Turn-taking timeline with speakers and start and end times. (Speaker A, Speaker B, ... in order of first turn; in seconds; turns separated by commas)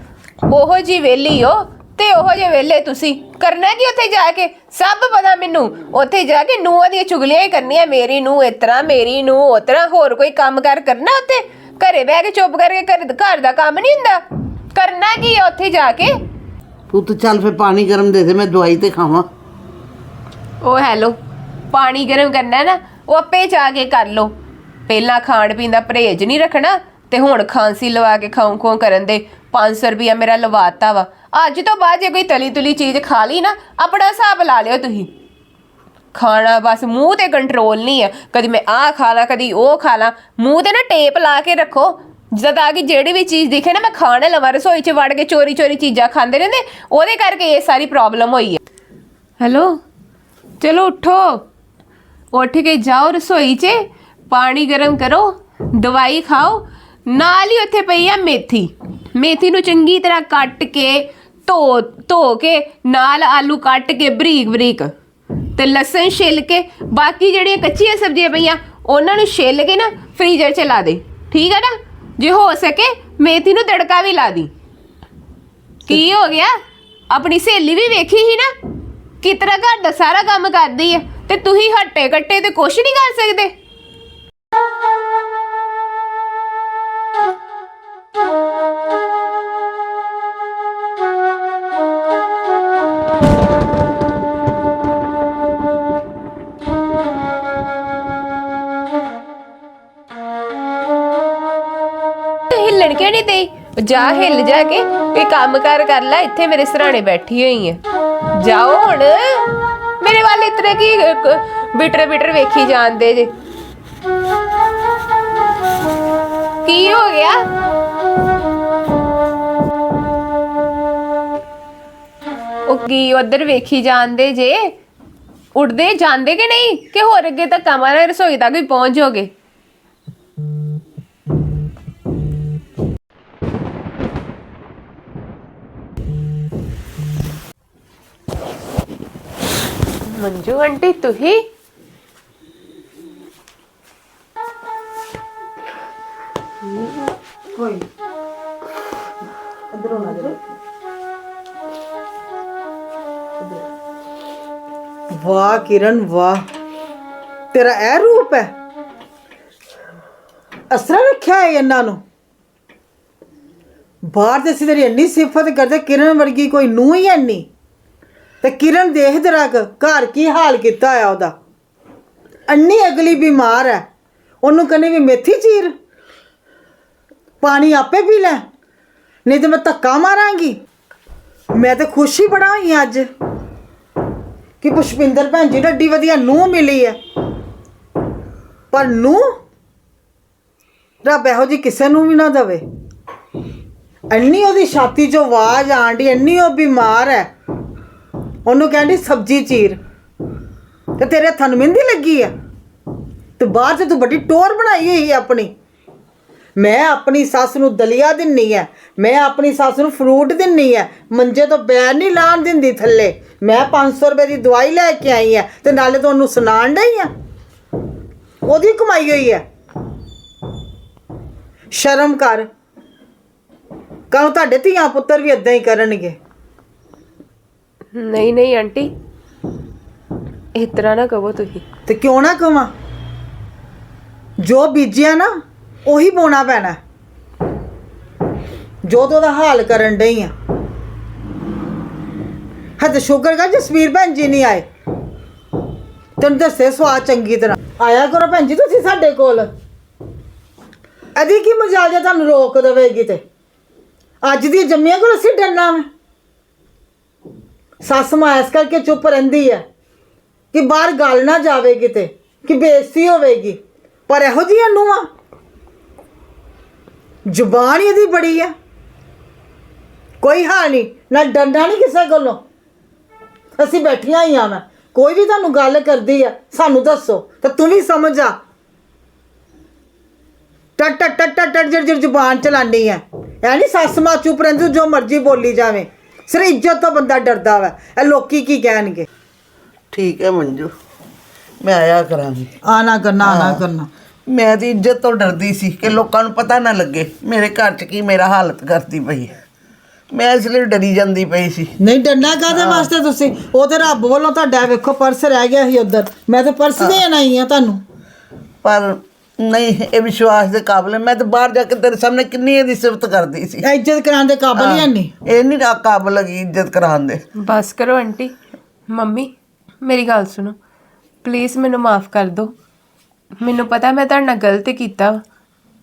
Speaker A: 0.5-14.2, Speaker A: 14.7-16.1, Speaker B: 16.9-19.3, Speaker A: 20.6-21.1, Speaker A: 21.7-24.3, Speaker A: 24.9-35.1, Speaker A: 36.1-48.6, Speaker A: 49.4-49.8, Speaker A: 50.6-51.4, Speaker A: 52.3-64.9, Speaker A: 65.5-74.5, Speaker A: 75.9-76.5, Speaker A: 77.1-78.5, Speaker A: 79.2-83.5, Speaker A: 102.5-107.8, Speaker A: 108.3-109.5, Speaker A: 110.0-113.3, Speaker A: 116.6-117.4, Speaker A: 122.7-124.7, Speaker A: 125.5-129.3, Speaker A: 140.1-141.4, Speaker C: 147.5-147.8, Speaker C: 149.7-150.5, Speaker C: 155.1-156.4, Speaker C: 157.5-158.5, Speaker C: 160.7-162.0, Speaker C: 164.1-167.5, Speaker C: 168.4-171.3, Speaker C: 172.5-173.8, Speaker C: 174.4-175.7, Speaker C: 177.4-178.4, Speaker C: 179.2-180.6, Speaker C: 181.5-183.1, Speaker C: 184.6-187.0, Speaker C: 188.7-189.2, Speaker C: 191.0-192.6, Speaker C: 194.1-197.3, Speaker C: 198.4-199.8, Speaker C: 201.0-202.3, Speaker C: 203.4-205.5, Speaker C: 206.6-217.1, Speaker C: 218.4-219.4, Speaker C: 221.7-222.5, Speaker C: 224.1-226.2, Speaker A: 227.9-228.9, Speaker A: 230.5-231.6, Speaker C: 231.9-232.7, Speaker C: 234.4-235.3, Speaker C: 235.8-236.8, Speaker C: 238.8-240.3, Speaker C: 242.8-244.7, Speaker C: 246.2-249.5, Speaker C: 251.2-253.2, Speaker C: 254.2-255.8, Speaker C: 257.8-259.6, Speaker C: 260.5-265.1, Speaker C: 267.2-268.5, Speaker C: 270.2-272.4, Speaker C: 273.6-278.4, Speaker C: 280.8-289.1, Speaker B: 289.9-290.7, Speaker B: 291.6-292.5, Speaker C: 292.6-293.9, Speaker B: 293.2-293.6, Speaker B: 294.3-299.3, Speaker B: 300.1-301.7, Speaker C: 301.8-307.8, Speaker B: 302.5-302.9, Speaker B: 308.6-313.6, Speaker C: 313.6-315.1, Speaker B: 314.6-317.2, Speaker A: 317.4-318.3, Speaker A: 318.9-320.6, Speaker A: 321.2-322.5, Speaker A: 323.4-325.2